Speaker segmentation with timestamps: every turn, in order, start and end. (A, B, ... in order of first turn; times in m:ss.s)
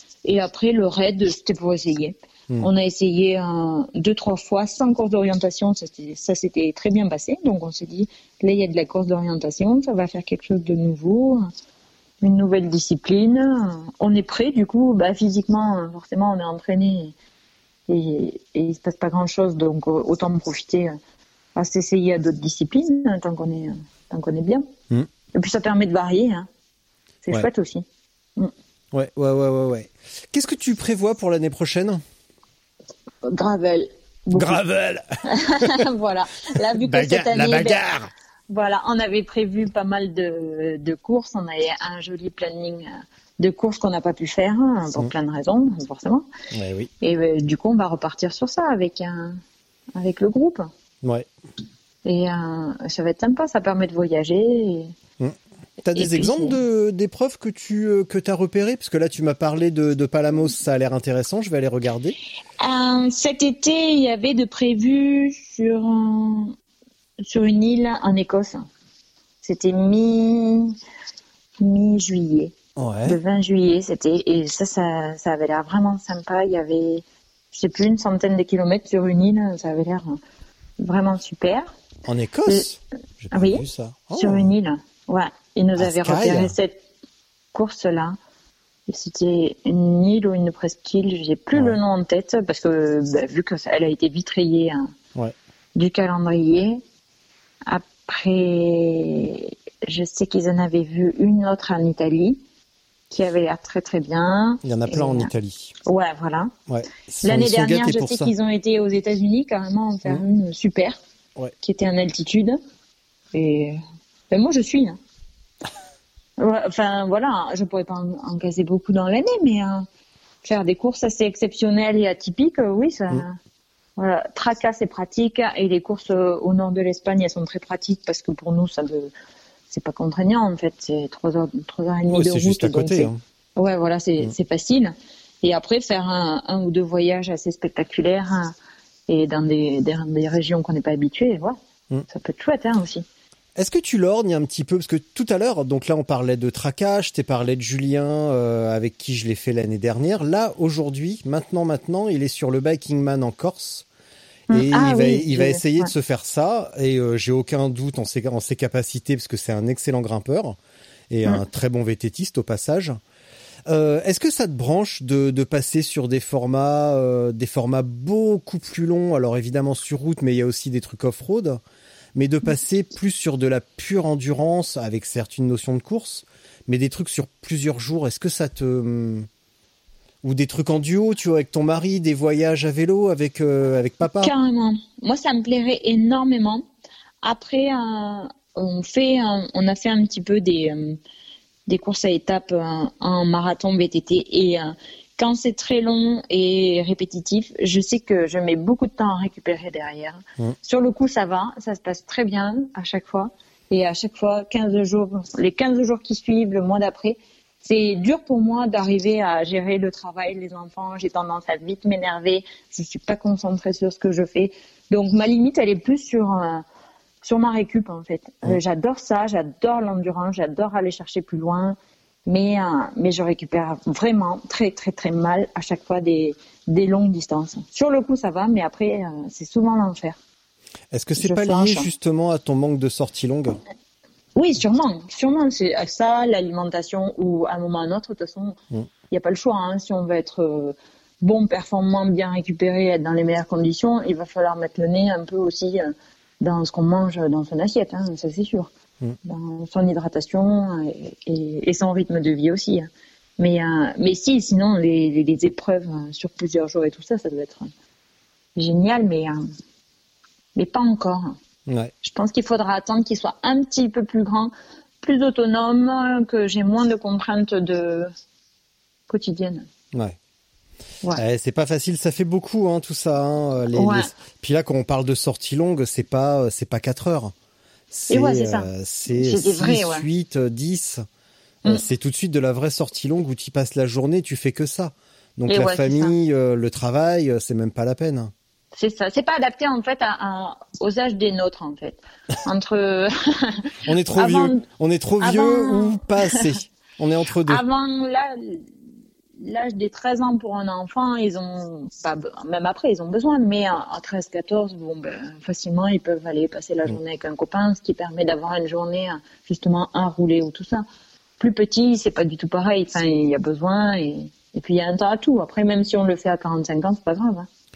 0:00.2-0:11.5 A
0:12.2-0:17.1 A
0:17.9-0:20.9 A
0:21.6-0:24.6 A
0:25.3-0:26.5 A
0:27.2-0:27.8 A
0:28.9-0:32.0 B
0:33.2-0:34.6 A
0:34.3-0:35.8 B
0:35.2-0:37.8 A
0:36.8-0:38.1 B
0:38.5-0:46.3 A
0:46.5-0:46.9 B
0:47.0-0:49.4 A
0:50.0-0:50.6 A
0:51.0-0:51.3 B
0:52.0-0:54.9 A
0:55.2-1:02.2 B
0:55.9-0:56.6 A
1:02.6-1:06.5 A
1:07.2-1:08.6 A
1:09.4-1:10.8 A
1:11.6-1:12.5 A
1:12.8-1:13.2 B
1:13.0-1:20.2 A
1:20.8-1:21.7 A
1:22.0-1:24.5 B
1:23.3-1:23.6 A
1:24.1-1:26.8 A
1:25.8-1:26.5 B
1:27.5-1:28.2 A
1:28.9-1:34.9 A
1:35.7-1:36.8 A
1:37.6-1:42.4 A
1:43.1-1:45.3 A
1:44.6-1:45.7 B
1:45.8-1:46.5 A
1:46.7-1:48.3 B
1:47.2-1:51.0 A
1:51.6-1:52.6 A
1:53.3-1:53.8 A
1:54.3-1:55.0 A
1:56.4-1:59.9 A
2:00.4-2:03.4 A
2:04.0-2:09.1 A
2:09.7-2:18.5 A
2:12.1-2:13.2 B
2:19.1-2:21.6 A
2:22.1-2:23.0 A
2:23.6-2:33.8 B
2:34.5-2:35.9 A
2:34.5-2:40.6 B
2:41.1-2:43.0 B
2:43.7-2:51.6 B
2:52.1-2:59.3 B
3:00.2-3:04.3 B
3:04.2-3:06.6 A
3:07.2-3:11.0 A
3:11.7-3:36.6 A
3:37.2-3:50.2 A
3:50.9-3:53.6 B
3:51.2-3:51.9 A
3:54.4-3:58.6 A
3:59.1-4:08.7 A
4:09.2-4:17.7 A
4:18.6-4:19.4 A
4:20.5-4:21.4 A
4:21.7-4:21.9 B
4:22.0-4:28.1 A
4:29.1-4:29.7 A
4:31.1-4:37.3 B
4:33.7-4:34.1 A
4:37.9-4:41.0 B
4:38.1-4:40.1 A
4:41.6-4:48.3 B
4:45.5-4:46.1 A
4:48.7-4:54.6 A
4:53.8-4:57.6 B
4:55.2-4:56.4 A
4:57.4-4:58.7 A
4:59.4-5:10.8 A
5:11.4-5:17.5 A